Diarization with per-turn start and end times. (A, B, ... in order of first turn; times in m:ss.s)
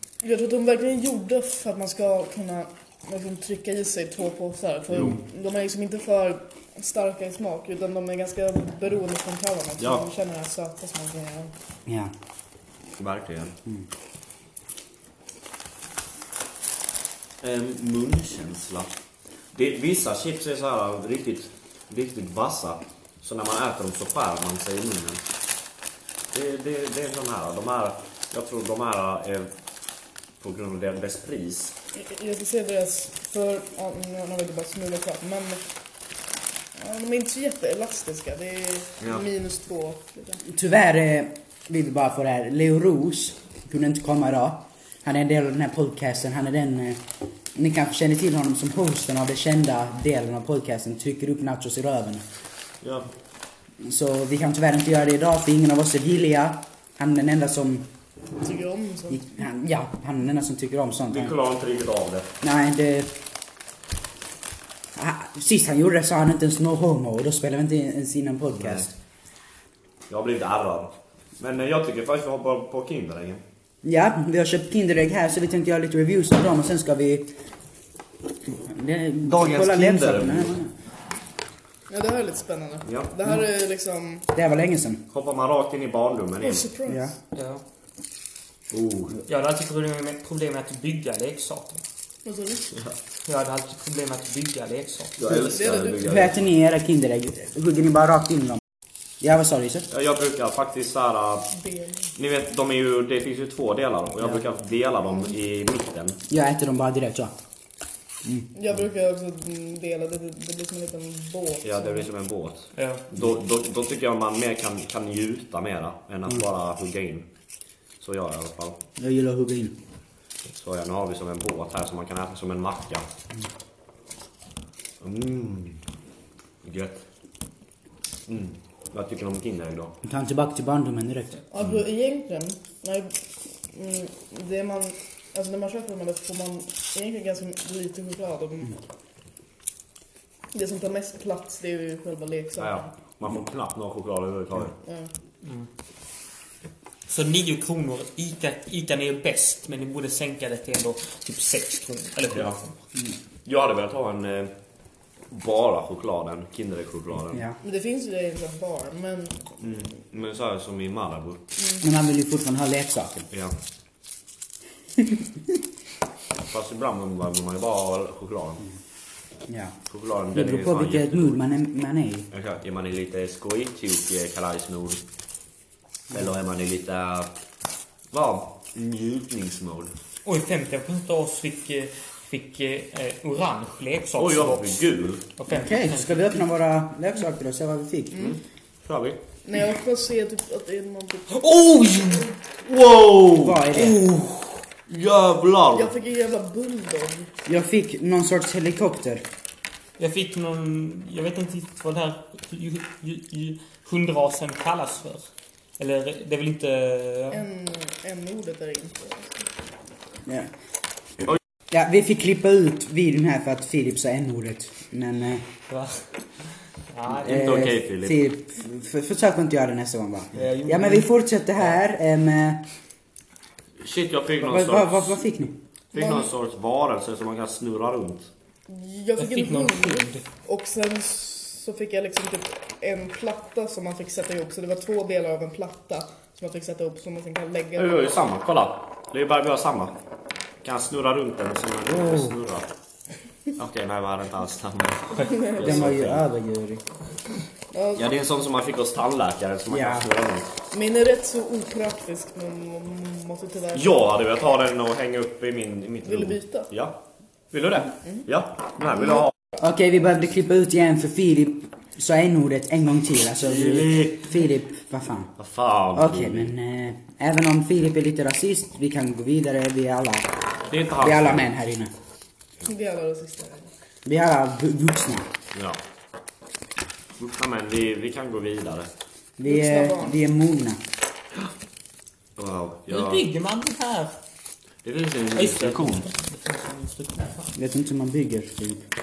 0:00.2-0:11.5 A
0:04.9-0:05.2 B
0:09.8-0:10.1 B
0:11.9-0:12.1 C
0:13.0-0:13.6 B
0:17.4-0:18.9 B
0:19.5-0:25.2 B
0:26.3-0:29.5 B
0:30.4-0:31.8 B
0:31.9-0:35.6 A
0:36.8-0:40.4 A
0:40.5-0:47.0 C
0:47.6-0:52.2 C
0:52.8-0:53.1 B
0:53.8-0:57.9 C
0:58.4-0:59.2 A
0:59.1-1:01.3 C
1:01.1-1:02.3 B
1:02.4-1:03.1 C
1:05.0-1:08.9 C
1:08.6-1:08.9 B
1:10.1-1:13.4 B
1:13.8-1:17.3 C
1:18.6-1:20.7 C
1:19.2-1:20.6 B
1:21.9-1:24.3 A
1:22.9-1:23.1 B
1:24.3-1:25.0 C
1:25.1-1:26.7 B
1:26.4-1:27.1 A
1:26.9-1:27.1 C
1:27.4-1:27.6 D
1:28.7-1:29.2 B
1:29.3-1:31.8 D
1:32.2-1:32.7 A
1:33.3-1:35.2 D
1:35.2-1:36.5 B
1:35.4-1:36.1 A
1:36.0-1:38.6 C
1:39.2-1:39.9 C
1:39.9-1:41.6 B
1:41.5-1:42.0 A
1:42.2-1:46.2 B
1:46.3-1:47.3 C
1:48.2-1:48.5 C
1:48.6-1:52.1 A
1:51.6-1:57.3 B
1:52.7-1:53.0 D
1:58.0-1:58.8 B
1:59.0-1:59.8 C
2:00.6-2:03.1 B
2:05.0-2:05.8 B
2:06.6-2:07.0 B
2:08.3-2:09.9 B
2:10.0-2:11.4 C
2:11.5-2:13.1 A
2:13.7-2:18.8 A
2:20.5-2:22.9 A
2:22.6-2:24.8 B
2:24.8-2:25.1 A
2:25.4-2:25.7 D
2:27.1-2:32.7 D
2:32.3-2:32.6 B
2:33.4-2:34.5 B
2:35.3-2:37.4 B
2:37.3-2:37.6 C
2:37.6-2:39.6 A
2:39.6-2:41.4 B
2:41.8-2:43.3 C
2:43.3-2:43.6 B
2:46.5-2:48.6 B
2:49.5-2:49.8 C
2:49.9-2:51.4 B
2:50.3-2:52.3 C
2:52.3-2:55.0 B
2:56.1-2:57.3 B
2:58.1-2:59.9 B
3:00.2-3:06.3 D
3:04.2-3:05.2 B
3:05.5-3:08.3 C
3:08.2-3:09.2 B
3:09.4-3:11.4 A
3:11.6-3:12.2 D
3:12.0-3:12.3 A
3:12.6-3:15.9 B
3:13.4-3:14.0 C
3:15.7-3:17.3 A
3:17.4-3:19.2 C
3:20.0-3:27.4 D
3:27.3-3:29.5 A
3:31.7-3:35.5 C
3:35.7-3:37.4 D
3:37.2-3:38.2 B
3:37.2-3:42.6 C
3:40.3-3:41.1 D
3:43.8-3:45.2 B
3:44.4-3:45.6 C
3:45.9-3:48.3 B
3:45.9-3:46.3 A
3:48.7-3:58.2 A
3:49.2-3:50.2 D
3:57.8-4:00.0 B
4:00.6-4:02.7 B
4:01.9-4:02.4 C
4:03.6-4:06.3 B
4:05.2-4:05.9 A
4:05.6-4:06.8 C
4:07.7-4:08.1 A
4:08.0-4:10.5 B
4:09.7-4:10.1 C
4:10.7-4:14.1 A
4:13.7-4:17.0 B
4:16.0-4:16.7 A
4:17.5-4:19.3 B
4:19.6-4:25.4 C
4:23.4-4:24.2 B
4:25.4-4:26.5 B
4:26.0-4:30.3 C
4:30.7-4:31.4 B
4:31.0-4:31.9 C
4:32.6-4:33.7 A
4:34.0-4:35.3 C
4:35.5-4:35.8 B
4:37.2-4:38.9 B
4:39.4-4:40.8 C
4:39.4-4:40.2 A
4:42.4-4:43.3 B
4:42.9-4:44.2 D
4:44.8-4:46.1 B
4:45.4-4:47.5 D
4:47.6-4:48.9 C